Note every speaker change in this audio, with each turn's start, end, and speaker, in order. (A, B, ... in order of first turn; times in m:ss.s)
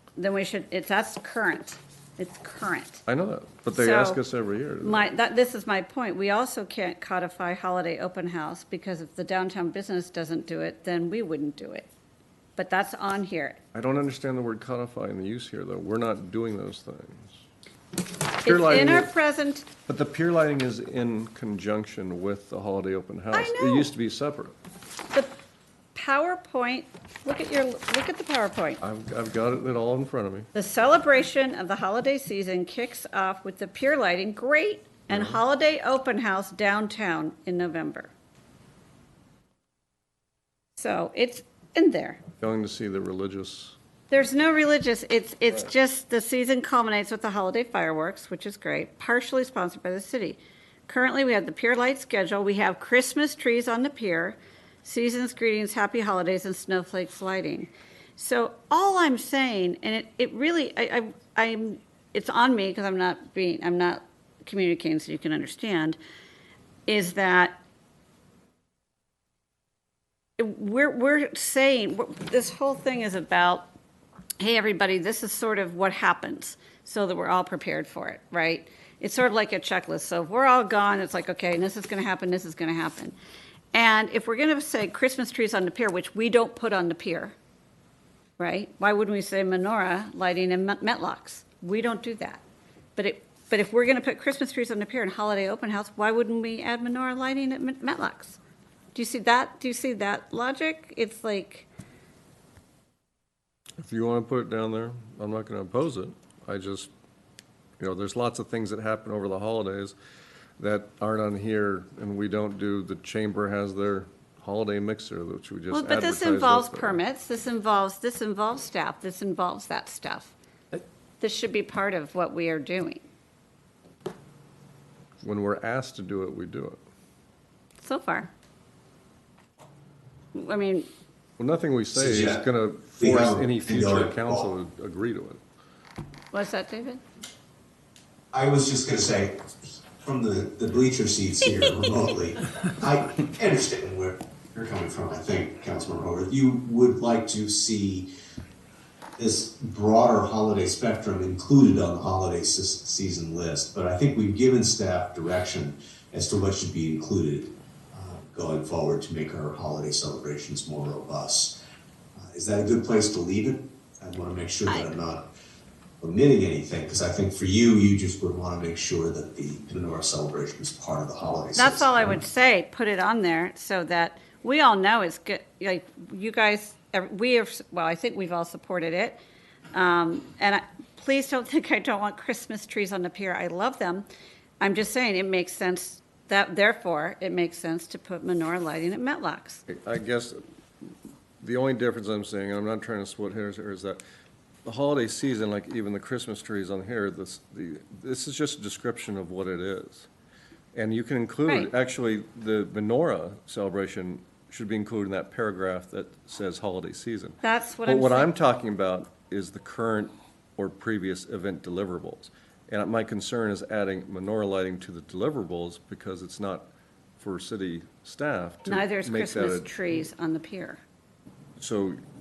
0:00.2-0:03.0 A
0:03.1-0:05.0 B
0:03.7-0:04.2 A
0:04.8-0:11.9 A
0:12.6-0:13.6 A
0:13.7-0:17.4 B
0:18.4-0:19.1 B
0:18.4-0:19.7 A
0:19.8-0:24.6 B
0:23.3-0:23.9 A
0:26.0-0:28.8 A
0:28.8-0:30.5 B
0:30.6-0:38.1 A
0:35.1-0:35.4 B
0:40.8-0:42.2 A
0:42.4-0:43.8 B
0:44.1-1:06.0 A
1:06.9-1:07.6 A
1:10.4-1:13.7 A
1:14.4-1:23.2 A
1:23.7-1:27.3 A
1:28.4-1:32.4 A
1:33.0-1:38.4 A
1:38.9-1:41.7 A
1:43.8-1:46.9 B
1:47.8-1:49.9 B
1:50.6-1:57.0 B
1:55.7-2:00.3 A
2:01.2-2:03.0 A
2:05.2-2:06.8 B
2:07.8-2:08.3 A
2:10.3-2:10.9 A
2:11.4-2:15.4 B
2:11.9-2:12.4 C
2:13.0-2:14.5 C
2:16.3-2:17.0 A
2:18.3-2:28.1 C
2:29.2-2:41.5 C
2:42.2-2:45.2 C
2:46.0-2:52.2 C
2:51.6-2:59.2 A
2:59.7-3:04.1 A
3:04.6-3:09.6 A
3:09.7-3:10.9 B
3:11.4-3:14.0 B
3:14.6-3:20.1 B
3:20.8-3:36.7 B
3:27.4-3:28.3 A
3:37.2-3:39.7 B
3:38.6-3:40.8 A
3:41.6-3:42.0 B